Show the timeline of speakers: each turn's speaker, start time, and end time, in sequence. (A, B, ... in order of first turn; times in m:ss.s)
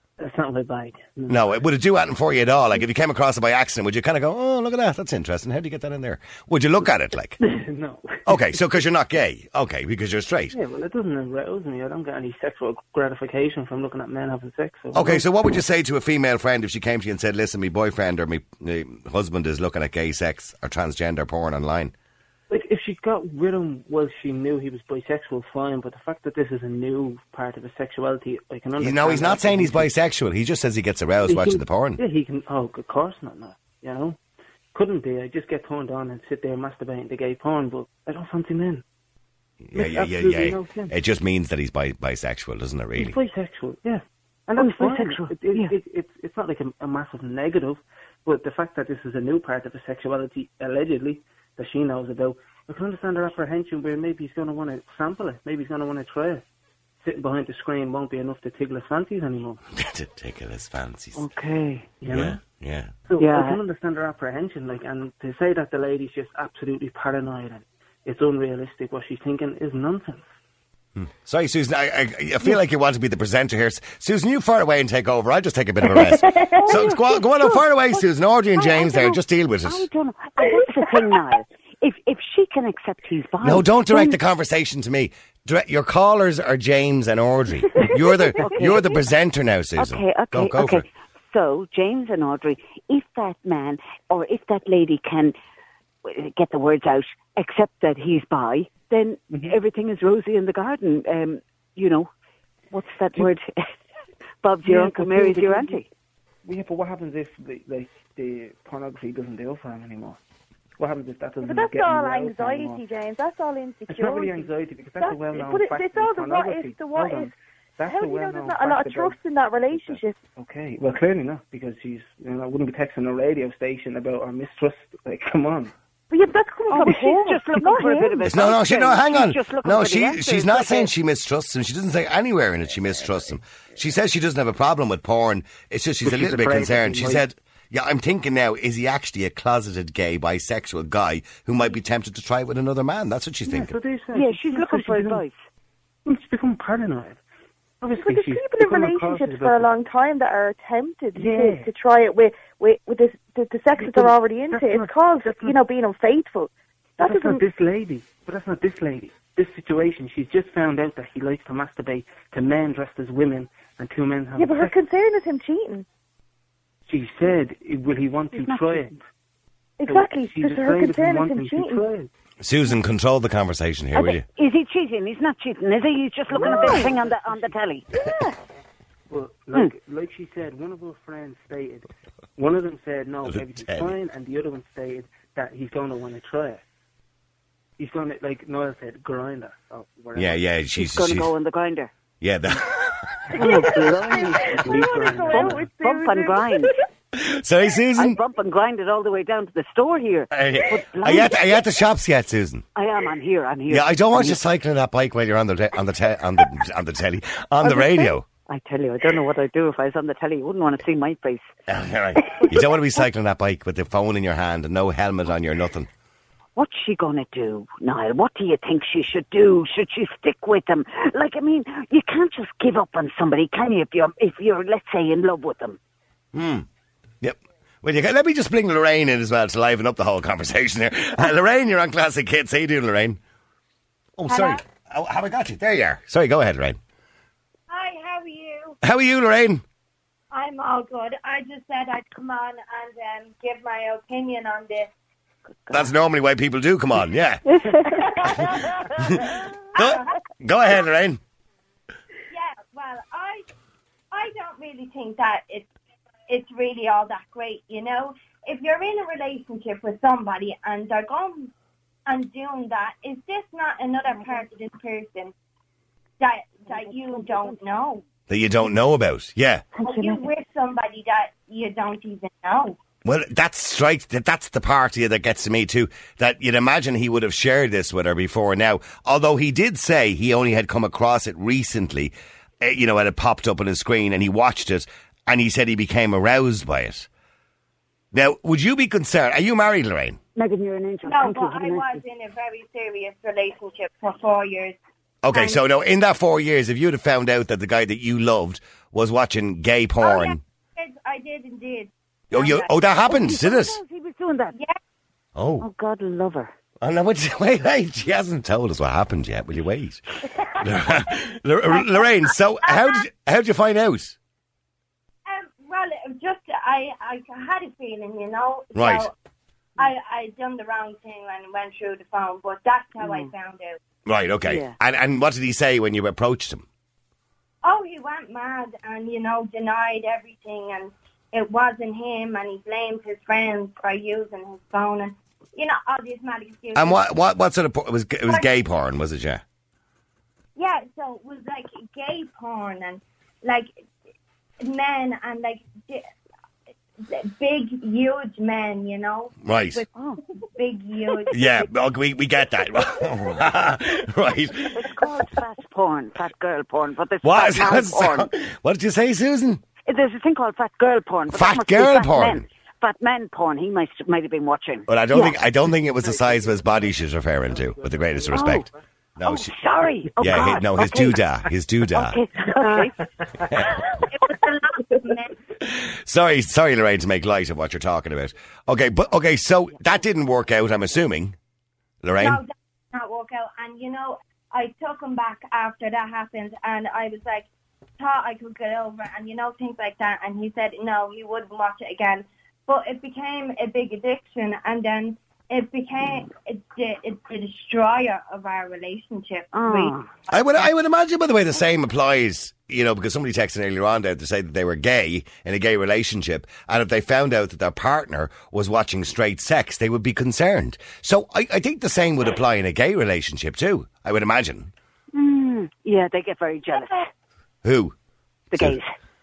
0:00.2-0:01.5 A
0:01.3-0:07.4 B
0:07.4-0:08.5 A
0:08.3-0:10.6 B
0:10.5-0:15.2 A
0:14.9-0:21.9 B
0:22.5-0:29.9 A
0:28.8-0:32.0 B
0:31.2-0:34.2 A
0:34.7-0:38.8 A
0:39.6-0:43.2 B
0:39.7-0:40.9 A
0:43.0-0:56.4 A
0:44.6-0:45.7 C
0:57.0-0:59.6 A
0:59.8-1:01.2 B
1:01.2-1:01.9 C
1:02.0-1:02.4 A
1:02.1-1:02.9 B
1:03.1-1:10.3 A
1:03.2-1:03.6 C
1:11.0-1:19.8 B
1:16.2-1:16.6 D
1:16.4-1:18.0 C
1:18.6-1:24.2 C
1:23.4-1:30.9 B
1:28.3-1:29.0 C
1:29.8-1:35.3 C
1:36.0-1:42.1 C
1:42.7-1:43.8 C
1:44.4-1:45.9 C
1:44.6-1:45.8 A
1:46.4-1:50.2 A
1:50.8-1:52.8 A
1:51.4-1:57.3 D
1:53.9-1:59.2 A
1:57.9-2:00.2 D
1:59.7-2:05.7 A
2:06.1-2:08.4 D
2:06.7-2:10.9 C
2:08.2-2:23.7 B
2:16.0-2:17.2 A
2:23.5-2:25.2 A
2:24.1-2:25.4 C
2:26.0-2:27.2 A
2:27.8-2:29.7 A
2:28.0-2:37.4 D
2:31.2-2:31.7 A
2:33.8-2:35.6 A
2:37.0-2:44.8 A
2:44.4-2:45.9 D
2:46.9-2:49.0 A
2:48.3-2:48.9 C
2:49.8-2:51.8 D
2:49.8-2:52.1 A
2:52.4-2:54.2 B
2:54.0-2:58.0 C
2:56.3-2:57.5 A
2:59.1-3:06.6 A
3:03.3-3:04.0 B
3:07.8-3:10.4 A
3:10.2-3:11.3 B
3:10.8-3:11.9 C
3:12.2-3:13.4 B
3:13.3-3:15.7 A
3:13.3-3:16.8 C
3:13.4-3:16.7 D
3:17.1-3:18.2 B
3:18.0-3:21.6 C
3:20.3-3:22.7 B
3:22.8-3:24.4 C
3:23.7-3:28.3 B
3:28.5-3:31.5 C
3:31.7-3:35.9 B
3:36.6-3:45.8 C
3:46.3-3:46.7 B
3:47.2-3:53.2 B
3:54.2-3:56.8 B
3:54.3-3:54.6 E
3:57.7-3:58.8 E
3:58.8-3:59.6 B
4:00.3-4:04.9 E
4:05.7-4:07.4 B
4:07.5-4:08.4 C
4:08.0-4:10.1 E
4:08.4-4:11.2 B
4:12.3-4:13.5 E
4:14.1-4:15.7 E
4:16.3-4:21.5 E
4:22.1-4:25.3 E
4:26.2-4:28.0 E
4:26.7-4:27.6 C
4:28.3-4:29.6 B
4:29.8-4:30.3 C
4:29.8-4:32.8 E
4:33.0-4:47.1 B
4:48.1-4:50.2 B
4:50.4-4:52.0 C
4:51.0-4:54.8 E
4:55.2-5:00.4 B
4:55.3-4:55.6 E
5:00.0-5:02.7 E
5:02.3-5:03.8 B
5:03.1-5:04.6 C
5:05.4-5:05.6 B
5:05.6-5:06.5 C
5:06.8-5:10.0 B
5:10.6-5:14.2 B
5:11.8-5:12.1 E
5:12.6-5:13.0 E
5:15.3-5:19.1 E
5:18.8-5:19.1 B
5:19.8-5:23.8 E
5:23.0-5:23.3 C
5:24.1-5:26.7 B
5:24.4-5:24.8 C
5:27.6-5:37.1 E
5:36.8-5:39.4 B
5:40.6-5:43.7 E
5:44.6-5:46.1 E
5:47.0-5:49.9 E
5:49.4-5:49.8 B
5:50.0-5:50.2 C
5:50.6-5:51.4 E
5:51.3-5:54.9 B
5:54.7-5:58.3 C
5:57.2-5:59.6 B
5:59.9-6:05.4 C
6:01.3-6:02.4 B
6:04.9-6:09.5 B
6:07.7-6:08.6 A
6:08.3-6:08.7 C
6:09.2-6:11.2 C
6:10.2-6:12.2 B
6:11.9-6:13.1 C
6:12.7-6:13.4 A
6:13.4-6:14.0 B
6:14.0-6:15.3 E
6:15.6-6:21.4 B
6:22.0-6:22.4 B
6:22.2-6:27.5 E
6:28.0-6:40.4 E
6:39.5-6:40.1 C
6:40.3-6:54.7 B
6:55.1-6:57.1 C
6:57.6-6:58.0 B
6:58.5-6:58.9 C